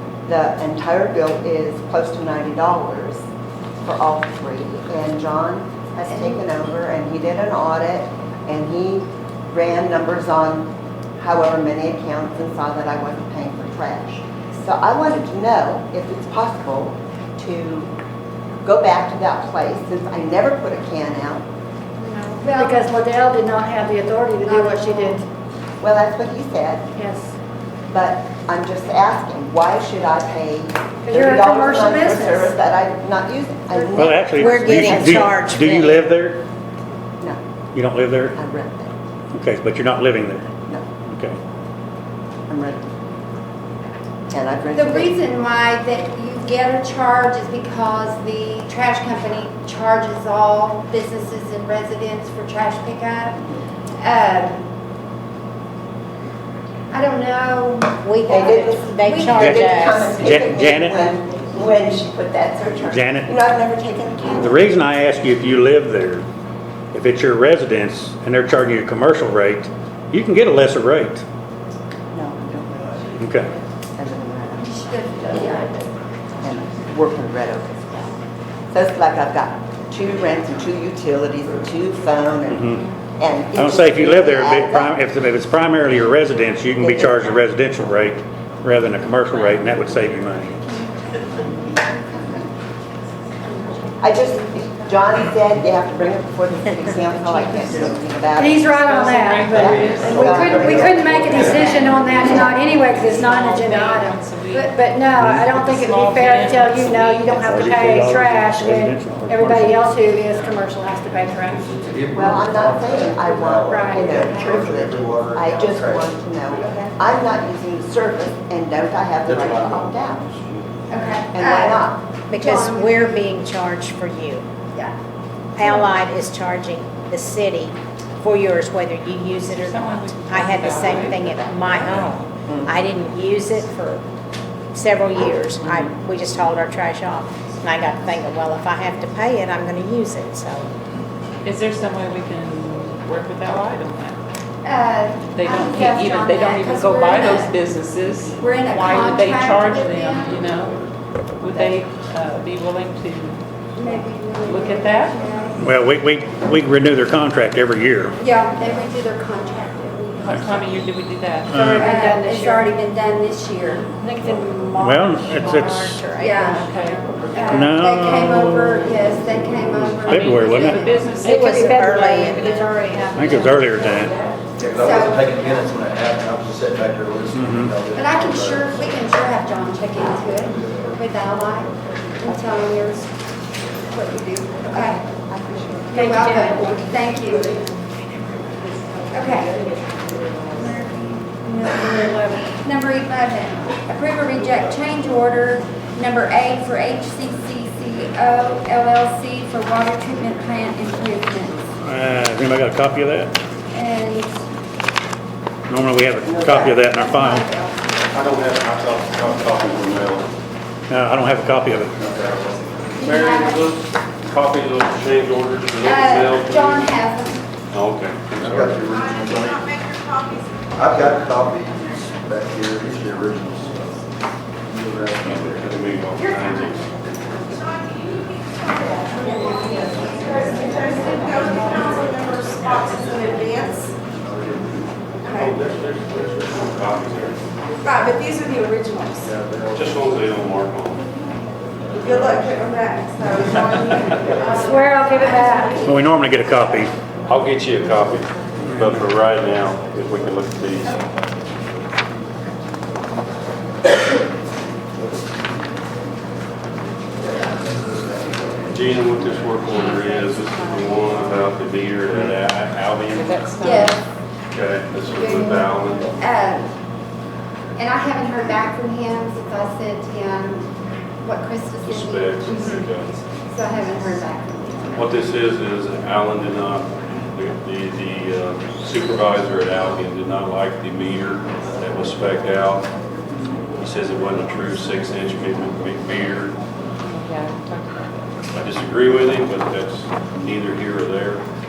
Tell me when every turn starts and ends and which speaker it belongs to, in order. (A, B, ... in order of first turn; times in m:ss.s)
0:00.3-0:03.2 A
0:03.8-0:17.9 A
0:06.1-0:06.4 B
0:18.6-0:21.4 A
0:22.0-0:22.9 B
0:22.5-0:25.2 C
0:24.4-0:25.2 B
0:25.8-0:26.9 A
0:27.0-0:27.3 C
0:27.9-0:36.0 A
0:31.0-0:32.5 C
0:33.9-0:36.4 D
0:34.0-0:36.1 E
0:37.7-0:38.4 D
0:38.3-0:38.9 A
0:39.3-0:40.5 D
0:41.0-0:41.4 D
0:42.5-0:42.9 A
0:44.3-0:45.1 A
0:44.7-0:53.4 B
0:54.0-0:54.6 B
0:56.9-0:59.7 B
0:58.0-1:00.7 E
0:58.3-1:04.7 A
0:59.3-1:01.1 D
1:02.8-1:03.3 D
1:04.4-1:06.2 D
1:06.9-1:11.2 D
1:12.1-1:14.7 A
1:13.2-1:13.5 D
1:14.6-1:15.7 B
1:16.4-1:18.1 A
1:18.7-1:25.0 A
1:22.5-1:22.8 D
1:23.5-1:30.5 D
1:26.8-1:27.3 A
1:31.1-1:31.9 B
1:33.4-1:34.0 B
1:34.0-1:38.8 A
1:38.4-1:51.7 C
1:38.8-1:44.8 F
1:39.5-1:41.5 A
1:39.6-1:41.8 G
1:41.5-1:41.8 B
1:45.4-1:47.7 F
1:47.4-1:49.8 D
1:51.5-1:56.8 G
1:52.1-2:00.2 A
1:53.7-1:54.2 C
1:59.2-2:00.7 G
2:00.9-2:03.2 B
2:01.3-2:02.0 A
2:02.3-2:04.4 E
2:05.6-2:14.0 E
2:09.5-2:12.2 F
2:12.5-2:12.7 A
2:14.7-2:20.7 E
2:21.4-2:24.2 F
2:24.6-2:27.5 B
2:25.3-2:30.8 F
2:28.4-2:30.4 B
2:31.4-2:35.2 F
2:33.8-2:35.7 B
2:35.6-2:38.2 D
2:38.2-2:40.8 B
2:40.2-2:41.5 F
2:41.5-2:41.9 D
2:41.5-2:42.7 C
2:41.5-2:43.9 B
2:43.9-2:45.8 C
2:44.8-2:46.0 D
2:45.7-2:46.7 E
2:46.2-2:46.7 B
2:46.5-2:47.0 F
2:47.3-2:51.3 B
2:47.5-2:49.0 D
2:49.7-2:50.8 D
2:50.0-2:52.4 F
2:51.2-2:53.2 E
2:51.3-2:54.1 C
2:53.2-2:54.1 D
2:54.6-2:58.8 G
2:54.7-2:55.6 B
2:57.3-2:57.7 D
2:57.9-3:03.1 B
3:03.9-3:05.0 B
3:04.7-3:06.0 A
3:05.9-3:07.6 B
3:05.9-3:06.8 C
3:09.1-3:09.5 B
3:10.5-3:21.7 B
3:11.8-3:12.5 C
3:21.8-3:23.3 D
3:23.7-3:24.3 B
3:25.7-3:27.4 D
3:26.2-3:28.0 B
3:28.1-3:30.2 H
3:30.9-3:32.0 D
3:32.0-3:32.8 G
3:33.0-3:33.7 B
3:33.0-3:37.0 H
3:35.8-3:37.4 B
3:37.7-3:38.7 H
3:38.3-3:39.7 G
3:39.3-3:40.4 I
3:40.7-3:44.0 G
3:44.7-3:45.9 G
3:45.2-3:46.9 H
3:48.5-3:53.9 I
3:55.2-3:55.5 I
3:55.3-3:57.4 H
3:57.8-3:59.3 I
3:59.4-4:00.0 G
3:59.7-4:01.0 H
4:01.9-4:05.5 I
4:04.4-4:05.8 C
4:05.8-4:06.9 D
4:07.3-4:11.0 H
4:18.7-4:23.4 H
4:19.7-4:21.3 F
4:23.1-4:24.0 F
4:23.6-4:24.0 B
4:24.5-4:26.1 H
4:25.0-4:26.7 B
4:27.8-4:30.7 B
4:31.2-4:32.8 B
4:31.8-4:33.2 H
4:33.5-4:35.0 B
4:35.0-4:42.9 H
4:43.8-4:46.5 H
4:47.0-4:48.3 F
4:48.5-4:51.4 H